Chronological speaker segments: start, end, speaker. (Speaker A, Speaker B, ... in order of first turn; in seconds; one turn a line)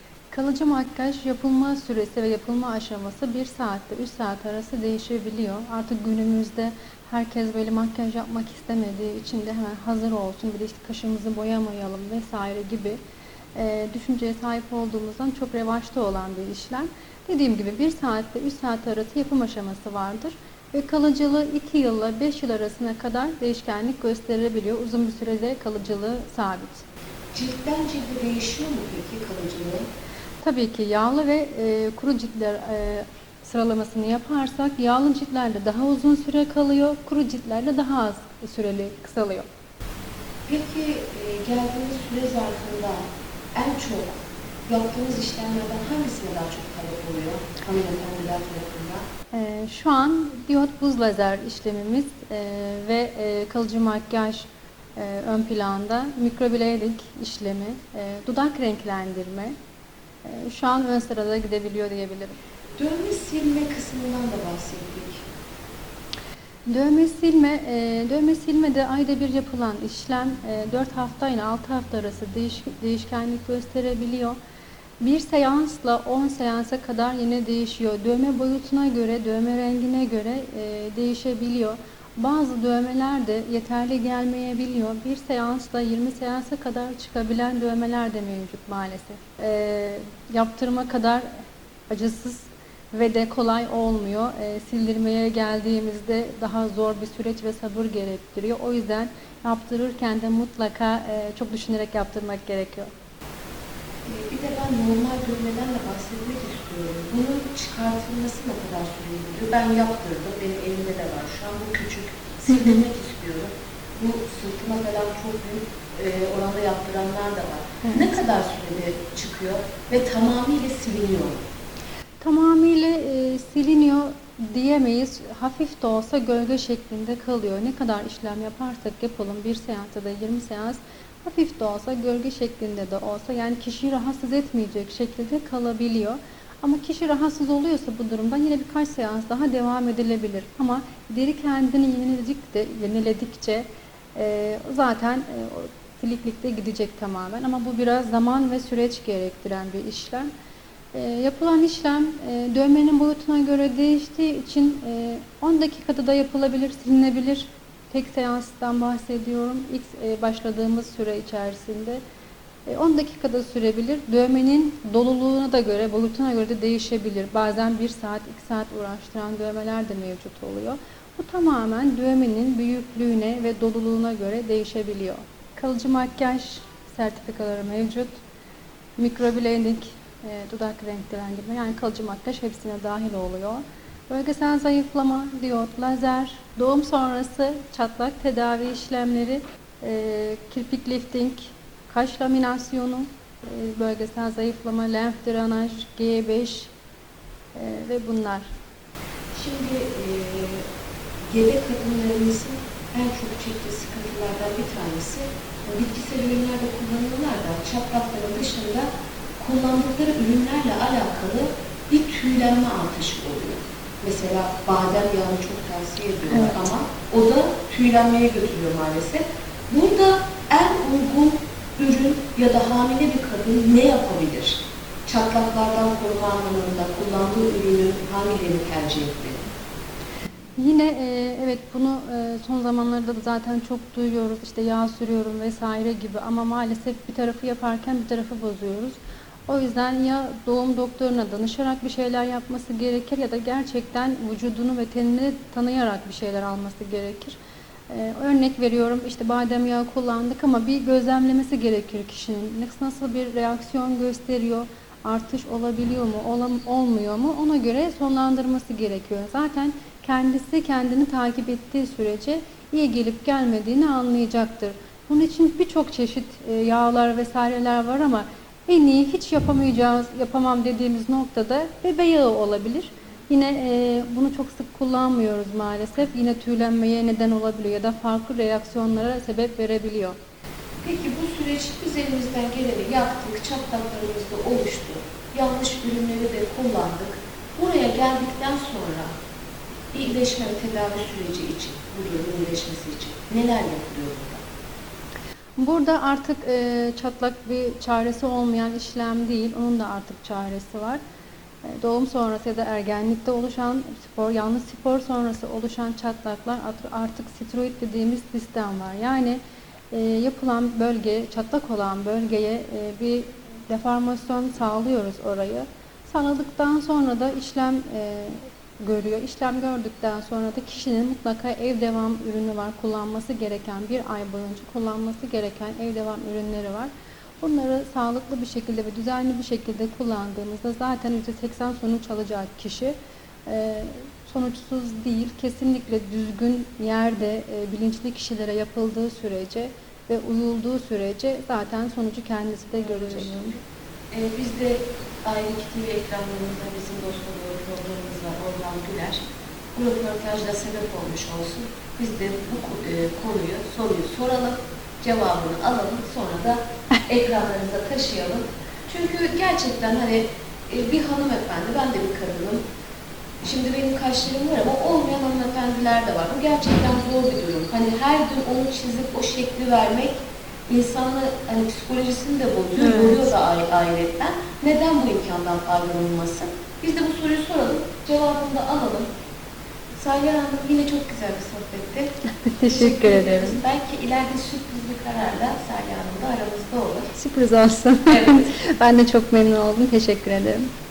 Speaker A: 0.3-13.0
Speaker A: 13.6-26.8
Speaker B: 27.3-29.9
Speaker A: 30.4-39.5
Speaker B: 40.5-43.0
Speaker B: 43.5-49.0
Speaker A: 49.3-59.5
Speaker A: 60.2-62.4
Speaker B: 62.8-65.2
Speaker A: 66.7-74.4
Speaker A: 75.0-91.3
Speaker A: 91.9-102.9
Speaker B: 104.1-121.4
Speaker A: 112.5-112.8
Speaker A: 117.8-118.1
Speaker A: 122.2-150.3
Speaker A: 150.9-162.0
Speaker A: 162.7-178.2
Speaker A: 179.0-196.7
Speaker A: 197.5-198.5
Speaker B: 199.3-200.7
Speaker B: 201.3-208.9
Speaker B: 209.4-229.4
Speaker A: 216.3-216.6
Speaker A: 230.6-247.4
Speaker A: 247.9-280.2
Speaker B: 280.8-289.1
Speaker B: 289.9-294.4
Speaker A: 295.6-301.0
Speaker A: 301.6-309.4
Speaker A: 309.9-326.9
Speaker A: 327.4-332.9
Speaker A: 333.5-343.6
Speaker B: 342.8-343.5
Speaker B: 344.1-349.2
Speaker B: 349.8-362.6
Speaker B: 363.4-379.1
Speaker A: 372.8-373.3
Speaker B: 380.0-382.1
Speaker A: 382.4-383.6
Speaker B: 382.6-387.1
Speaker A: 387.2-390.7
Speaker B: 388.1-388.5